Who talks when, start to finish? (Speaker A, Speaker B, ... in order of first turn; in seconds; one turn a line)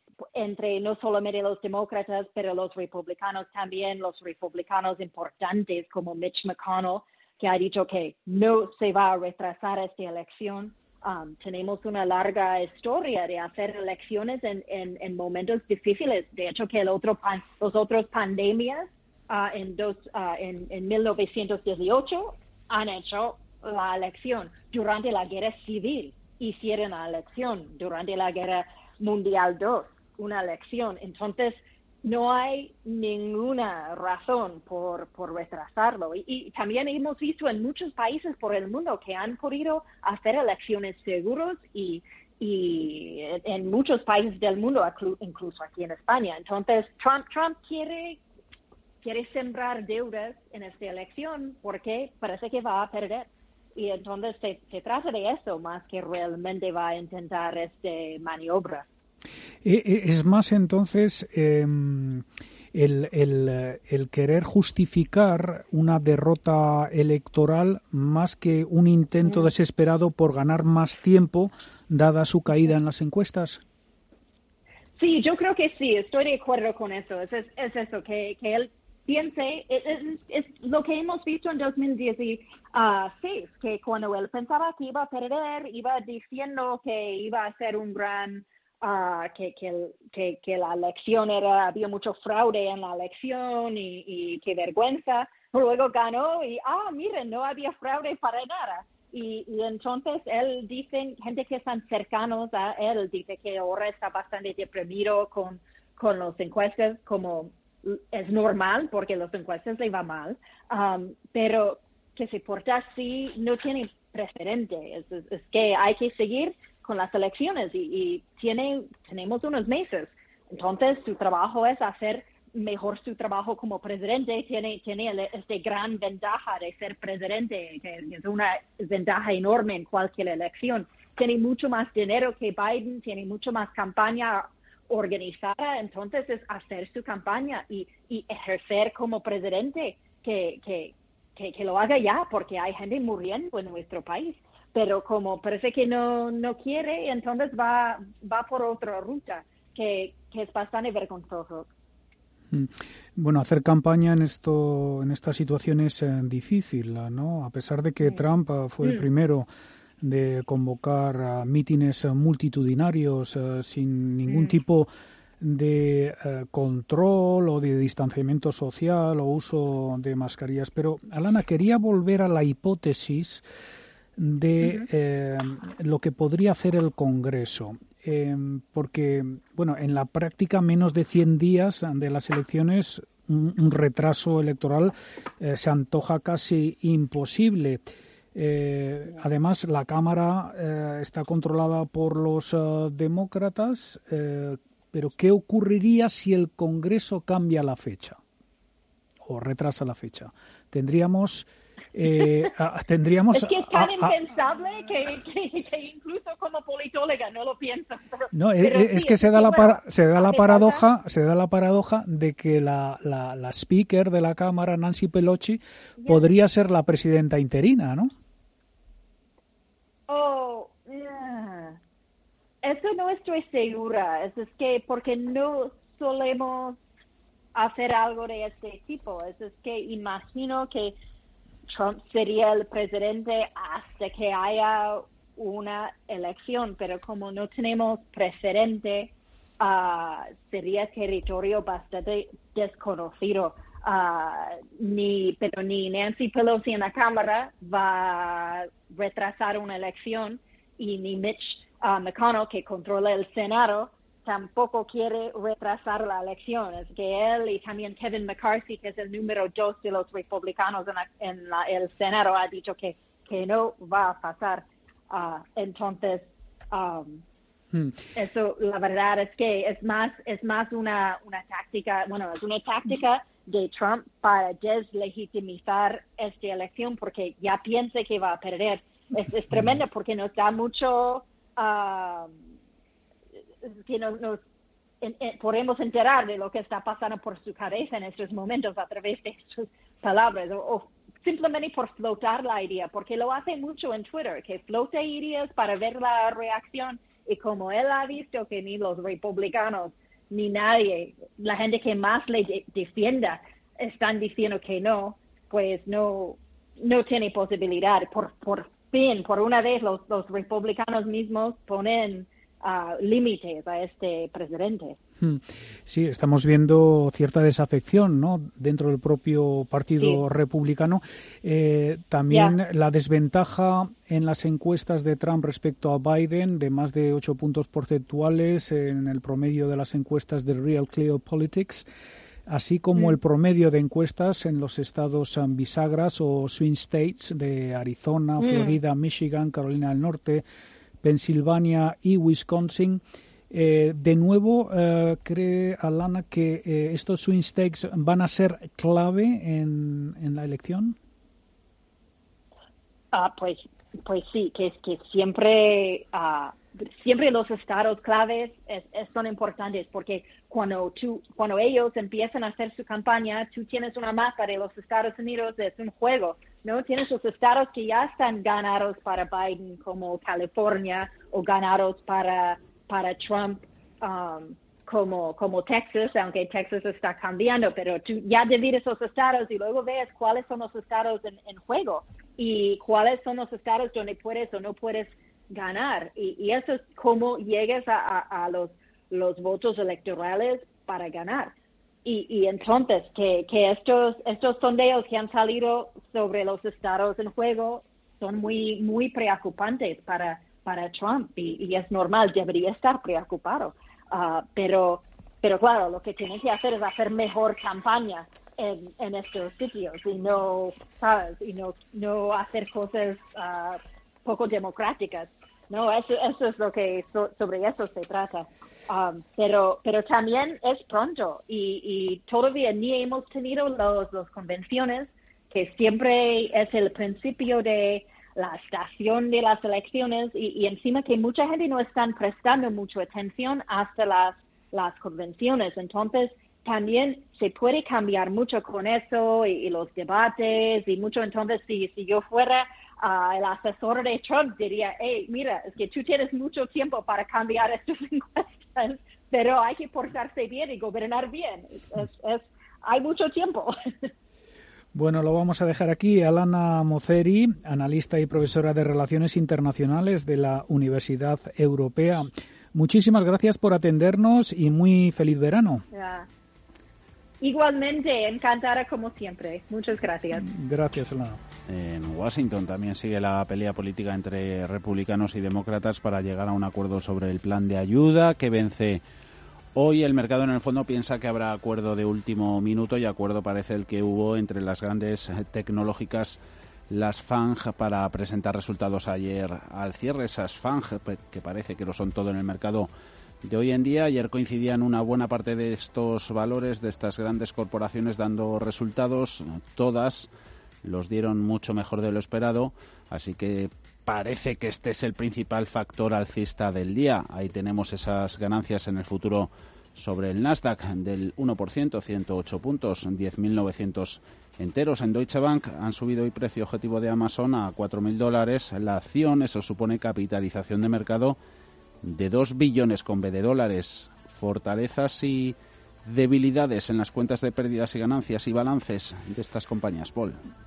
Speaker A: 0.3-48.2
Speaker A: 49.0-58.9
Speaker B: 59.6-73.6
Speaker A: 75.0-151.7
Speaker B: 152.5-159.5
Speaker B: 160.0-164.9
Speaker A: 164.3-164.6
Speaker B: 165.4-173.4
Speaker B: 174.2-198.2
Speaker B: 199.3-204.2
Speaker A: 203.3-210.8
Speaker B: 208.3-218.1
Speaker A: 220.1-221.8
Speaker A: 222.6-226.8
Speaker A: 227.6-231.0
Speaker A: 231.7-267.2
Speaker B: 267.7-268.0
Speaker A: 268.1-282.4
Speaker A: 283.6-284.4
Speaker A: 285.0-315.0
Speaker B: 315.2-331.9
Speaker A: 322.3-322.6
Speaker B: 332.5-340.4
Speaker A: 338.4-338.8
Speaker B: 341.0-351.0
Speaker A: 353.1-391.5
Speaker A: 392.1-454.1
Speaker B: 454.9-465.8
Speaker A: 465.9-466.3
Speaker A: 467.4-470.5
Speaker B: 470.4-471.4
Speaker C: 471.7-479.0
Speaker C: 479.8-492.9
Speaker C: 493.4-500.3
Speaker C: 500.8-521.4
Speaker C: 522.0-530.4